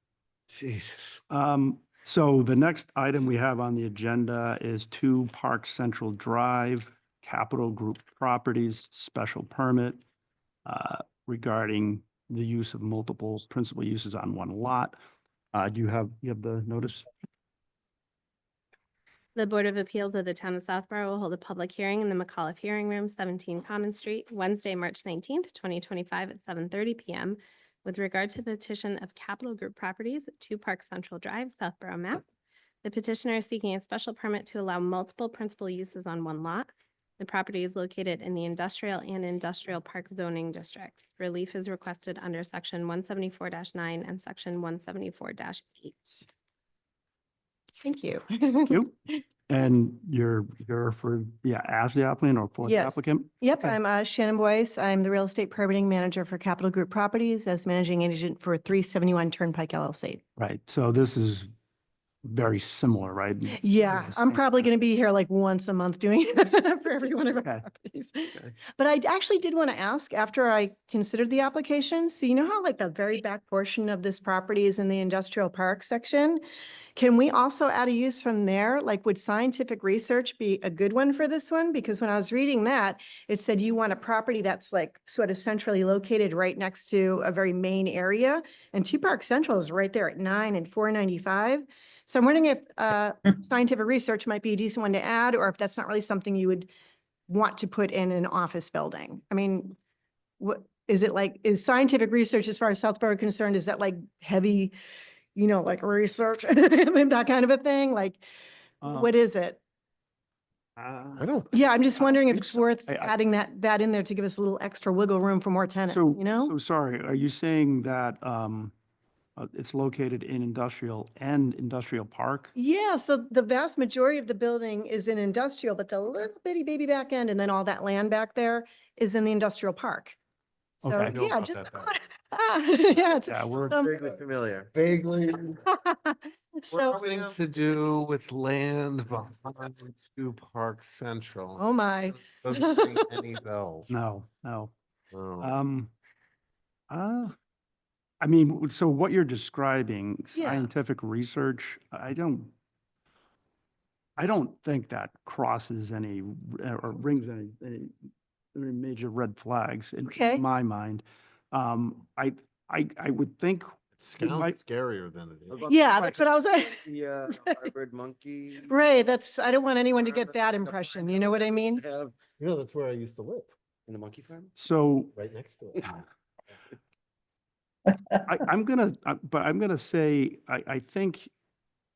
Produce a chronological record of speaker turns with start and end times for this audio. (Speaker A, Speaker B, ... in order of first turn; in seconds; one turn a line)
Speaker A: 0.5-1.2
Speaker B: 1.3-10.0
Speaker B: 10.7-15.0
Speaker B: 15.5-17.1
Speaker C: 19.4-32.2
Speaker C: 32.8-46.2
Speaker D: 47.8-48.8
Speaker B: 48.7-48.9
Speaker B: 49.5-53.8
Speaker D: 52.6-60.2
Speaker B: 60.4-61.5
Speaker B: 62.2-64.7
Speaker D: 63.5-76.4
Speaker D: 77.0-96.7
Speaker D: 97.3-99.8
Speaker D: 100.4-104.7
Speaker D: 105.3-108.2
Speaker B: 108.8-109.1
Speaker D: 108.8-109.6
Speaker B: 110.8-111.3
Speaker E: 111.2-111.6
Speaker D: 111.5-116.5
Speaker B: 112.0-113.1
Speaker B: 115.9-118.7
Speaker B: 119.4-122.5
Speaker D: 122.5-130.2
Speaker B: 130.8-131.2
Speaker D: 130.8-134.2
Speaker E: 131.1-131.9
Speaker B: 133.3-133.8
Speaker A: 133.6-134.7
Speaker E: 134.7-135.7
Speaker D: 135.7-137.0
Speaker E: 136.7-141.7
Speaker D: 141.6-143.2
Speaker E: 142.2-143.9
Speaker B: 143.9-144.7
Speaker E: 145.1-145.6
Speaker B: 145.4-145.9
Speaker B: 146.9-147.3
Speaker B: 148.2-152.5
Speaker D: 150.3-150.7
Speaker B: 154.2-157.9
Speaker B: 158.5-164.6
Speaker D: 160.1-160.4
Speaker E: 164.0-165.7
Speaker A: 165.5-168.7
Speaker D: 165.7-167.7
Speaker D: 168.7-171.8
Speaker A: 170.0-172.2
Speaker E: 172.4-173.5
Speaker A: 173.9-174.5
Speaker B: 174.6-175.1
Speaker E: 175.2-176.0
Speaker B: 178.2-181.3